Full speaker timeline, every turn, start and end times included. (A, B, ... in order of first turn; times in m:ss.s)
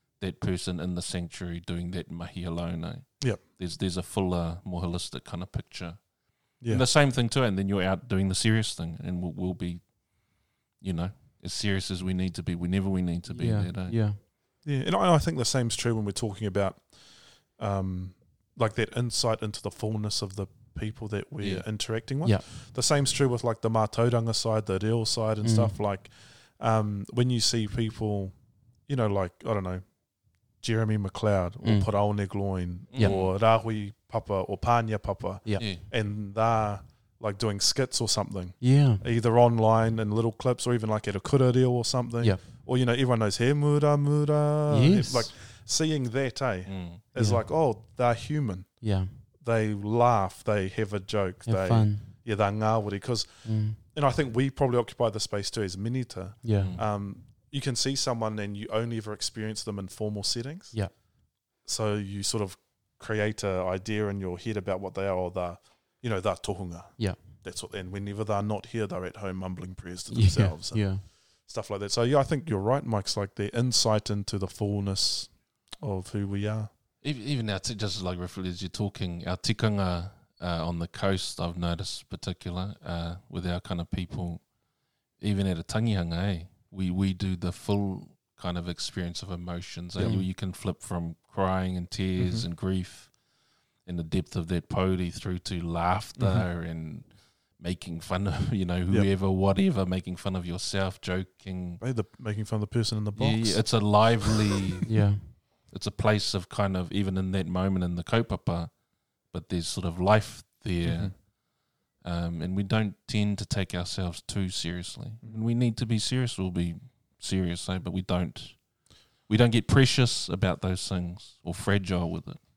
0:00.2-0:14.0 A
0:06.6-0:06.9 B
0:13.3-0:14.2 C
0:14.6-0:16.9 B
0:17.5-0:28.3 B
0:21.4-0:21.6 A
0:25.4-0:25.8 C
0:28.9-0:29.8 B
0:30.6-1:00.8 B
0:31.6-0:31.9 C
0:32.9-0:33.3 A
0:35.6-0:35.8 A
0:38.6-0:39.0 C
0:44.7-0:45.3 C
0:46.7-0:47.0 A
0:47.1-0:47.4 C
0:48.8-0:49.2 C
0:51.4-0:52.1 C
0:53.4-0:53.8 C
0:56.4-0:56.7 C
0:56.6-0:56.8 A
1:01.6-1:16.7 B
1:10.1-1:11.0 C
1:17.0-1:24.5 A
1:25.2-1:33.1 A
1:30.0-1:30.2 B
1:30.0-1:30.3 C
1:32.2-1:32.5 B
1:33.8-1:41.8 A
1:36.2-1:36.5 B
1:41.8-1:44.4 B
1:43.2-1:58.7 A
1:44.8-1:45.4 C
1:50.8-1:51.1 B
1:59.2-2:02.4 A